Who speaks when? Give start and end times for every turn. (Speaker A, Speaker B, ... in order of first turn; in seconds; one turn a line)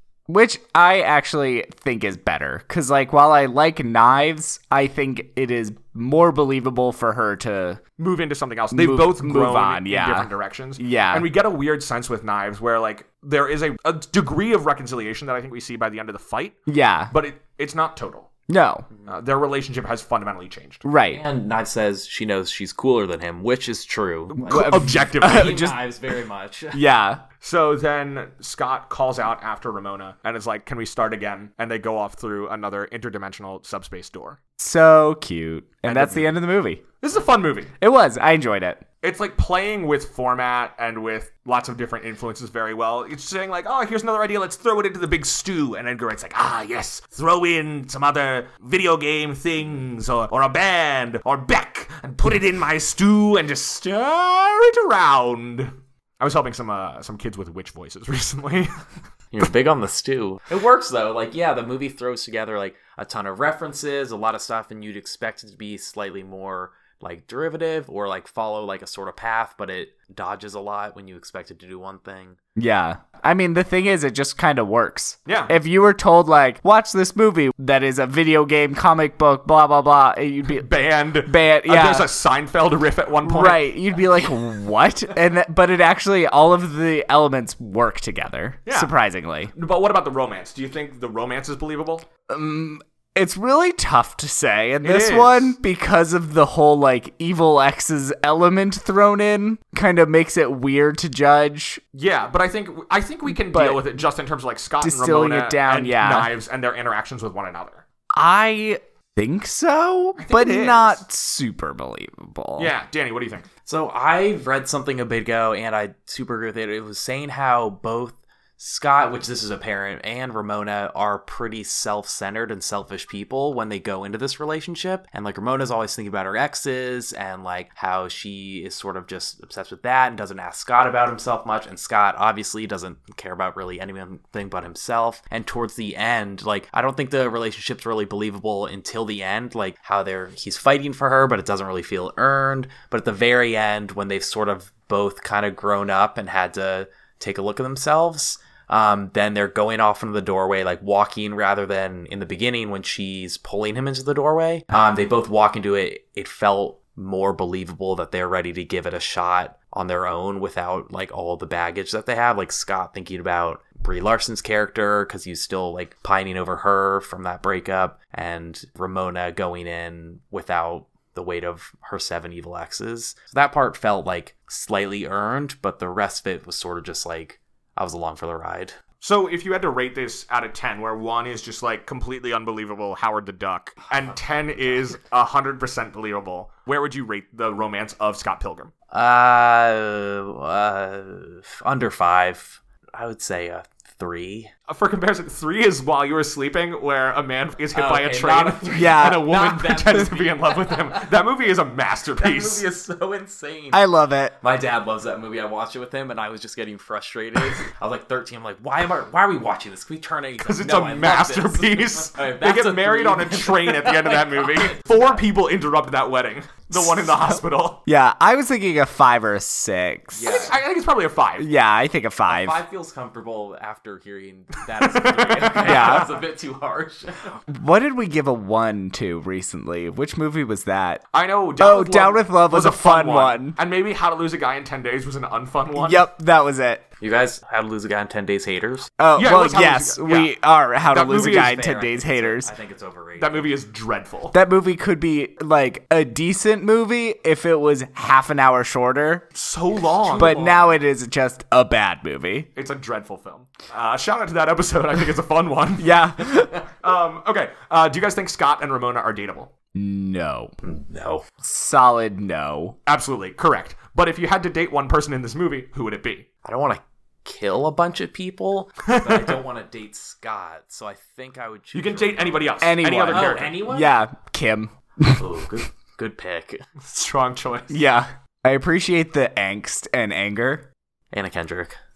Speaker A: 0.3-7.8
Speaker B: 8.0-16.6
Speaker A: 8.7-11.3
Speaker A: 16.7-17.1
Speaker B: 17.1-18.3
Speaker A: 18.5-18.8
Speaker B: 19.1-20.8
Speaker A: 20.8-21.2
Speaker C: 21.1-26.8
Speaker B: 24.3-25.7
Speaker A: 24.4-25.8
Speaker A: 26.7-27.2
Speaker B: 27.4-34.4
Speaker A: 34.6-36.8
Speaker B: 35.9-36.3
Speaker B: 37.0-37.7
Speaker A: 37.8-38.8
Speaker B: 39.0-58.7
Speaker C: 59.3-72.4
Speaker A: 72.6-80.7
Speaker B: 75.2-75.5
Speaker B: 80.5-83.7
Speaker A: 81.2-82.1
Speaker A: 83.2-89.5
Speaker B: 88.7-88.9
Speaker B: 89.5-92.0
Speaker A: 92.3-101.8
Speaker B: 94.8-95.6
Speaker B: 101.9-107.8
Speaker A: 103.3-103.8
Speaker A: 104.8-106.3
Speaker A: 108.1-112.7
Speaker B: 110.2-111.0
Speaker B: 112.6-113.5
Speaker C: 113.7-178.8
Speaker B: 179.0-188.7
Speaker C: 188.9-194.5
Speaker B: 194.7-202.6
Speaker C: 197.7-201.2
Speaker A: 198.7-199.3
Speaker C: 202.2-203.8
Speaker A: 203.7-204.3
Speaker C: 204.4-215.2
Speaker B: 210.4-217.8
Speaker A: 217.0-220.5
Speaker C: 220.1-220.6
Speaker B: 220.2-221.5
Speaker A: 221.4-222.6
Speaker C: 222.3-227.4
Speaker B: 224.8-226.0
Speaker A: 225.6-226.1
Speaker A: 227.5-231.0
Speaker B: 231.1-236.1
Speaker A: 231.6-233.6
Speaker A: 235.8-236.8
Speaker C: 237.0-238.9
Speaker A: 239.0-242.5
Speaker B: 239.2-240.3
Speaker B: 240.9-241.5
Speaker C: 241.0-243.5
Speaker B: 243.2-244.3
Speaker A: 244.3-249.2
Speaker B: 249.3-250.4
Speaker C: 249.8-250.8
Speaker A: 250.2-252.5
Speaker B: 252.5-256.0
Speaker A: 255.8-256.5
Speaker B: 256.8-259.5
Speaker A: 259.7-260.5
Speaker C: 260.6-261.2
Speaker A: 261.4-262.8
Speaker B: 262.9-266.3
Speaker C: 266.4-272.6
Speaker B: 268.9-269.3
Speaker B: 271.7-273.6
Speaker A: 272.6-275.4
Speaker C: 273.1-273.9
Speaker C: 275.2-276.6
Speaker B: 276.8-277.8
Speaker A: 277.7-280.7
Speaker C: 281.1-281.8